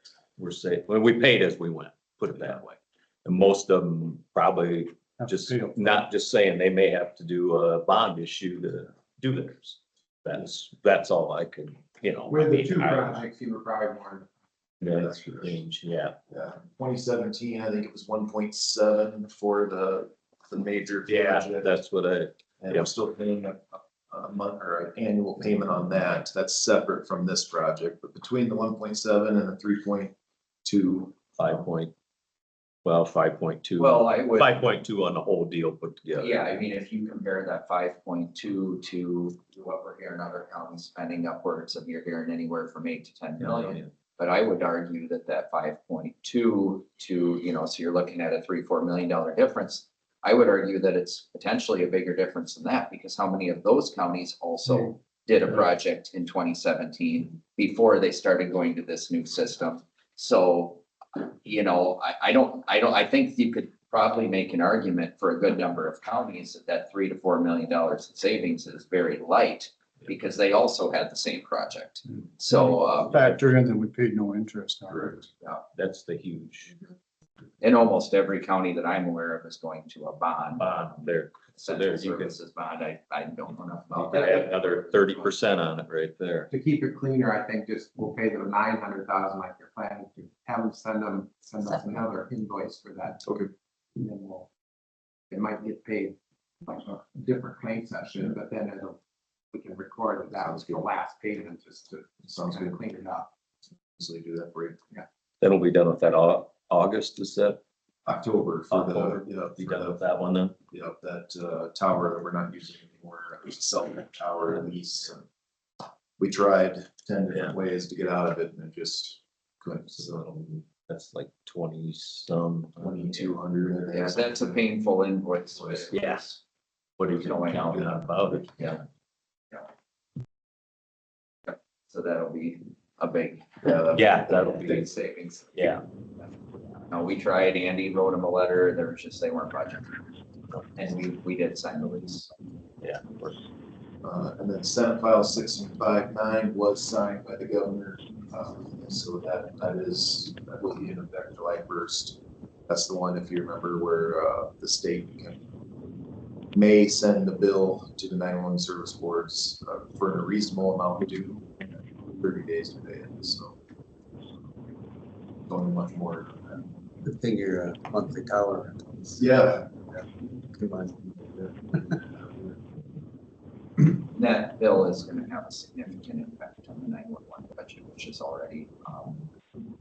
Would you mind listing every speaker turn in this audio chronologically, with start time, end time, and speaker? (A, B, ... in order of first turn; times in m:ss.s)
0:00.4-0:02.7 A
0:03.2-0:13.2 A
0:05.4-0:05.9 B
0:12.3-0:14.3 C
0:14.8-0:16.2 A
0:14.8-0:15.6 D
0:16.3-0:21.8 D
0:21.1-0:22.9 A
0:22.6-0:31.2 D
0:31.4-0:31.9 A
0:32.8-0:36.4 A
0:33.8-0:34.5 E
0:36.2-1:13.3 E
0:43.4-0:43.9 A
1:13.1-1:15.1 B
1:15.7-1:16.7 A
1:17.6-1:20.7 E
1:20.6-1:22.4 A
1:21.6-1:25.4 E
1:23.9-1:26.5 A
1:26.5-1:33.2 C
1:33.2-1:33.5 D
1:34.0-1:34.5 C
1:35.3-1:39.0 C
1:39.5-1:43.3 C
1:42.3-1:42.8 D
1:44.0-1:44.8 D
1:45.4-1:47.6 A
1:48.0-1:50.0 D
1:48.7-1:50.6 A
1:50.7-1:55.2 D
1:56.2-2:00.3 D
1:57.3-1:57.6 A
1:59.9-2:03.4 A
2:02.8-2:04.6 D
2:03.9-2:06.4 E
2:05.9-2:06.4 A
2:07.0-2:08.8 A
2:07.1-2:08.0 E
2:08.6-2:08.8 E
2:11.5-2:13.8 E
2:13.6-2:14.9 D
2:13.9-2:14.9 A
2:14.5-2:16.3 E
2:15.5-2:15.8 A
2:16.8-2:19.9 E
2:20.8-2:22.3 E
2:22.8-2:23.4 A
2:24.0-2:35.4 D
2:36.5-2:41.5 D
2:42.1-2:43.6 D
2:45.5-2:46.6 D
2:47.0-2:49.4 F
2:49.2-2:49.7 D
2:50.6-2:51.0 F
2:52.1-2:52.6 D
2:54.1-2:59.3 E